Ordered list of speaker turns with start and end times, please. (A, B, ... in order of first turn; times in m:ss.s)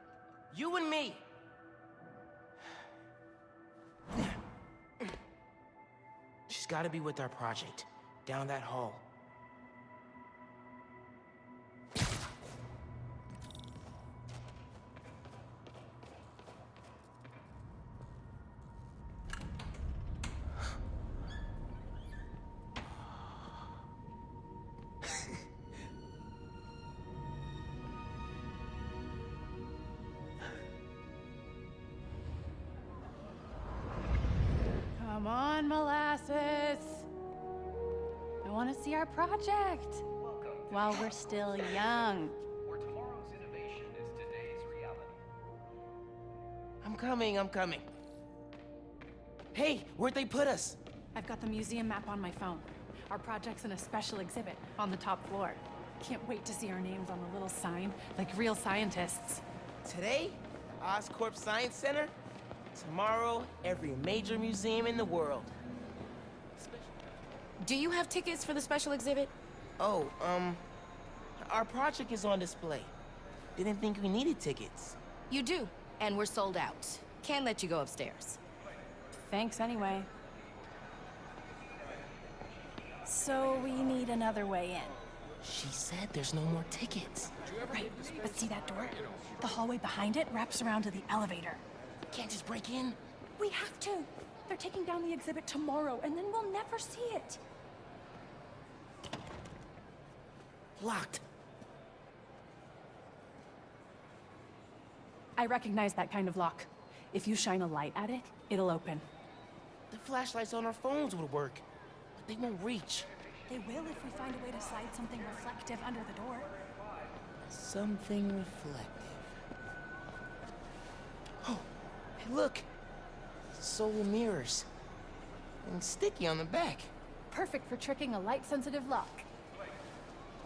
0:00.5-0:01.2 A
0:06.5-0:09.0 A
0:35.0-0:37.0 B
0:38.4-0:40.0 B
0:40.7-0:42.4 B
0:46.8-0:47.8 A
0:49.5-0:50.8 A
0:51.1-0:59.4 B
0:59.8-1:02.1 A
1:02.7-1:05.5 A
1:06.6-1:06.9 A
1:07.6-1:09.3 C
1:09.8-1:10.6 A
1:11.4-1:12.9 A
1:13.6-1:15.0 A
1:15.3-1:18.4 C
1:19.2-1:20.1 B
1:23.0-1:25.0 B
1:25.4-1:27.3 A
1:27.7-1:31.6 B
1:32.1-1:33.0 A
1:33.4-1:37.4 B
1:40.8-1:41.2 A
1:45.4-1:49.0 B
1:49.9-1:51.6 A
1:52.2-1:53.1 A
1:53.5-1:56.5 B
1:57.5-1:59.2 A
2:01.4-2:01.7 A
2:02.2-2:02.7 A
2:03.5-2:04.7 A
2:05.6-2:06.9 A
2:07.3-2:09.2 B